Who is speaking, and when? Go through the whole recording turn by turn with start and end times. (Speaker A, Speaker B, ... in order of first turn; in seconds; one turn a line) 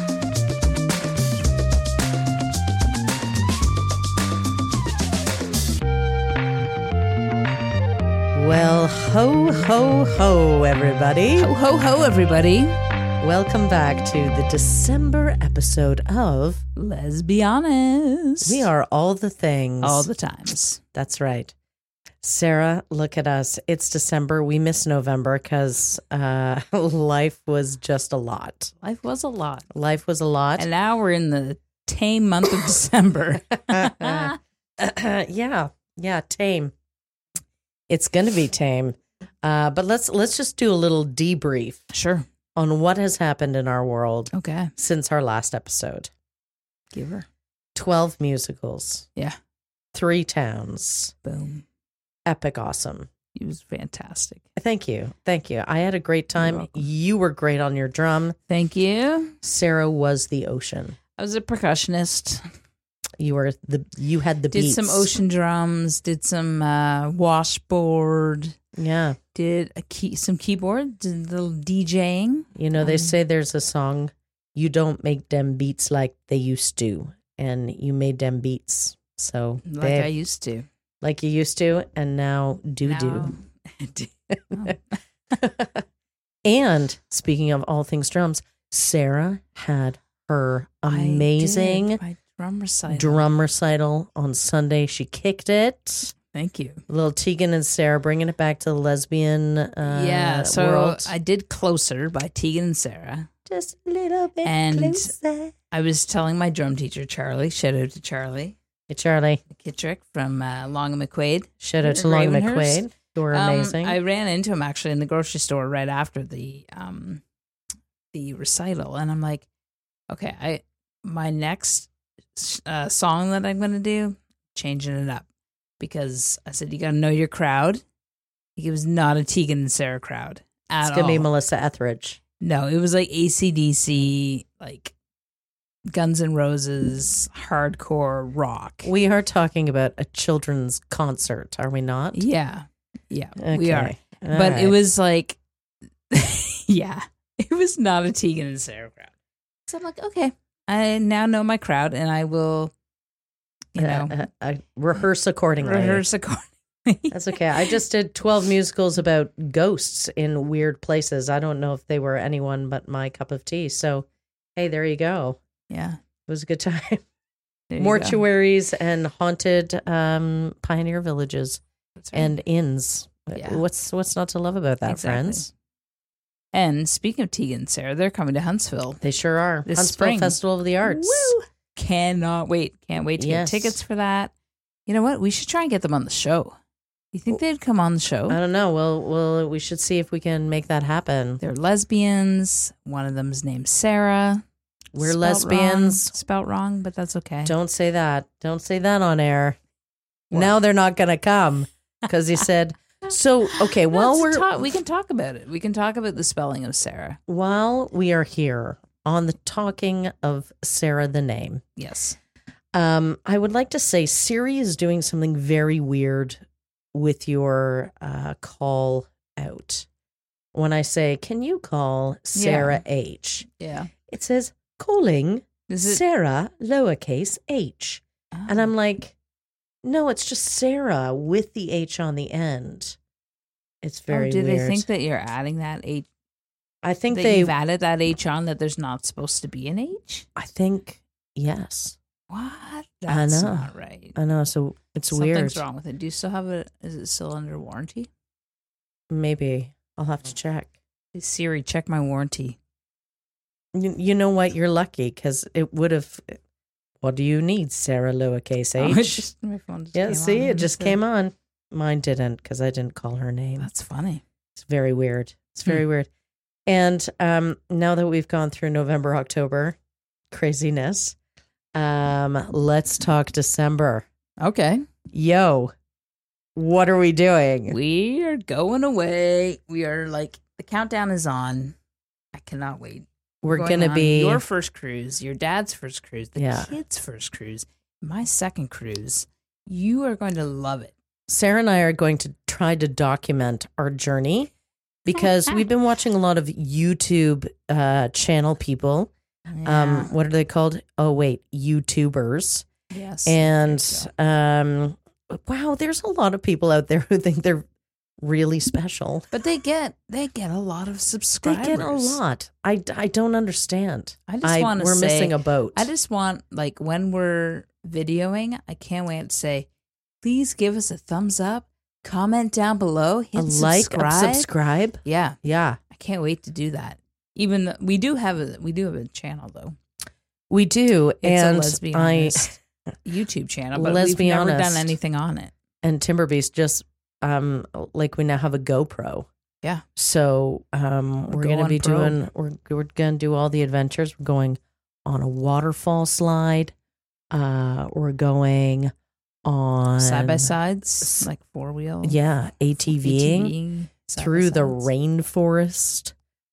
Speaker A: 8.3-11.5
Speaker B: 11.4-12.8
Speaker A: 13.2-16.6
Speaker B: 16.8-18.7
Speaker A: 18.4-20.1
Speaker B: 19.8-20.8
Speaker A: 20.9-21.5
Speaker A: 22.2-28.7
Speaker B: 28.8-29.7
Speaker A: 29.7-30.7
Speaker B: 30.6-34.4
Speaker A: 33.6-36.7
Speaker A: 37.9-41.8
Speaker B: 41.9-42.2
Speaker A: 42.5-46.1
Speaker B: 44.3-44.7
Speaker B: 46.9-47.3
Speaker A: 47.7-49.1
Speaker A: 49.9-51.1
Speaker B: 51.2-51.6
Speaker A: 52.3-53.1
Speaker B: 53.3-54.5
Speaker A: 54.5-58.4
Speaker B: 56.4-56.8
Speaker B: 58.5-59.4
Speaker A: 59.4-61.0
Speaker B: 61.2-62.4
Speaker A: 63.2-65.1
Speaker B: 64.5-68.5
Speaker A: 68.8-69.2
Speaker B: 69.3-73.1
Speaker A: 72.5-80.1
Speaker B: 79.7-80.7
Speaker A: 81.0-83.3
Speaker B: 82.8-85.0
Speaker A: 85.4-85.8
Speaker A: 86.4-92.0
Speaker B: 90.9-93.2
Speaker A: 92.9-96.1
Speaker B: 96.3-96.8
Speaker A: 96.9-101.1
Speaker B: 99.8-103.3
Speaker A: 103.5-105.5
Speaker B: 104.4-105.1
Speaker B: 105.7-108.6
Speaker A: 108.9-109.4
Speaker B: 109.5-117.2
Speaker A: 111.6-114.0
Speaker B: 118.1-119.5
Speaker B: 120.1-125.2
Speaker B: 125.8-127.8
Speaker B: 128.6-131.3
Speaker A: 130.8-132.2
Speaker B: 132.4-134.9
Speaker B: 135.9-138.9
Speaker A: 138.8-142.2
Speaker B: 142.1-145.4
Speaker A: 143.4-144.8
Speaker B: 146.1-149.1
Speaker B: 149.7-152.7
Speaker B: 153.8-154.2
Speaker A: 153.8-156.0
Speaker B: 155.6-157.2
Speaker A: 157.1-165.4
Speaker B: 165.7-166.0
Speaker A: 166.3-167.0
Speaker B: 167.7-168.2
Speaker A: 167.8-171.6
Speaker B: 172.0-172.3
Speaker A: 172.1-175.5
Speaker B: 173.3-173.6
Speaker B: 174.8-175.5
Speaker B: 176.5-179.0
Speaker A: 179.0-181.3
Speaker B: 179.6-184.3
Speaker A: 183.2-183.8
Speaker B: 184.9-186.6
Speaker B: 187.1-188.4
Speaker A: 188.3-191.4
Speaker B: 191.4-194.4
Speaker A: 194.9-196.1
Speaker B: 195.0-197.5
Speaker A: 197.4-199.6
Speaker A: 200.3-204.6
Speaker B: 203.5-207.2
Speaker A: 207.3-211.6
Speaker B: 211.8-212.2
Speaker A: 212.7-216.4
Speaker A: 216.9-219.9
Speaker A: 220.5-223.5
Speaker B: 222.3-222.8
Speaker B: 223.6-223.9
Speaker A: 224.1-229.2
Speaker B: 225.7-226.0
Speaker B: 228.3-228.7
Speaker A: 229.8-233.0
Speaker A: 233.8-234.9
Speaker B: 234.1-236.1
Speaker A: 236.8-237.5
Speaker B: 237.1-240.3
Speaker A: 240.3-242.0
Speaker B: 242.3-244.2
Speaker A: 243.1-245.6
Speaker B: 245.1-248.1
Speaker A: 249.1-250.7
Speaker B: 251.1-252.6
Speaker A: 253.7-256.4
Speaker A: 257.0-259.3
Speaker B: 258.8-261.0
Speaker A: 259.9-263.7
Speaker B: 263.6-264.2
Speaker A: 264.6-266.1
Speaker A: 266.7-269.8
Speaker A: 270.3-271.2
Speaker A: 271.7-274.1
Speaker B: 274.4-274.9
Speaker A: 275.1-275.7
Speaker A: 276.6-277.8
Speaker B: 277.7-281.8
Speaker B: 282.3-290.9
Speaker A: 283.4-284.4
Speaker A: 286.4-286.7
Speaker A: 291.3-294.5
Speaker A: 295.1-299.1
Speaker B: 299.5-300.1
Speaker A: 299.6-302.7
Speaker B: 302.9-304.1
Speaker A: 303.2-307.7
Speaker A: 308.2-309.2
Speaker B: 309.3-312.2
Speaker A: 311.4-315.9
Speaker B: 314.3-319.7
Speaker B: 320.2-324.5
Speaker A: 323.4-325.8
Speaker B: 325.0-325.4
Speaker B: 325.9-329.8
Speaker A: 330.5-332.6
Speaker B: 331.2-335.5
Speaker A: 333.7-334.9
Speaker A: 335.8-339.3
Speaker A: 340.0-346.7
Speaker B: 341.3-342.2
Speaker A: 347.3-348.9
Speaker A: 349.4-351.2
Speaker B: 350.0-352.2
Speaker A: 352.0-353.5
Speaker B: 352.9-354.9
Speaker A: 354.1-356.1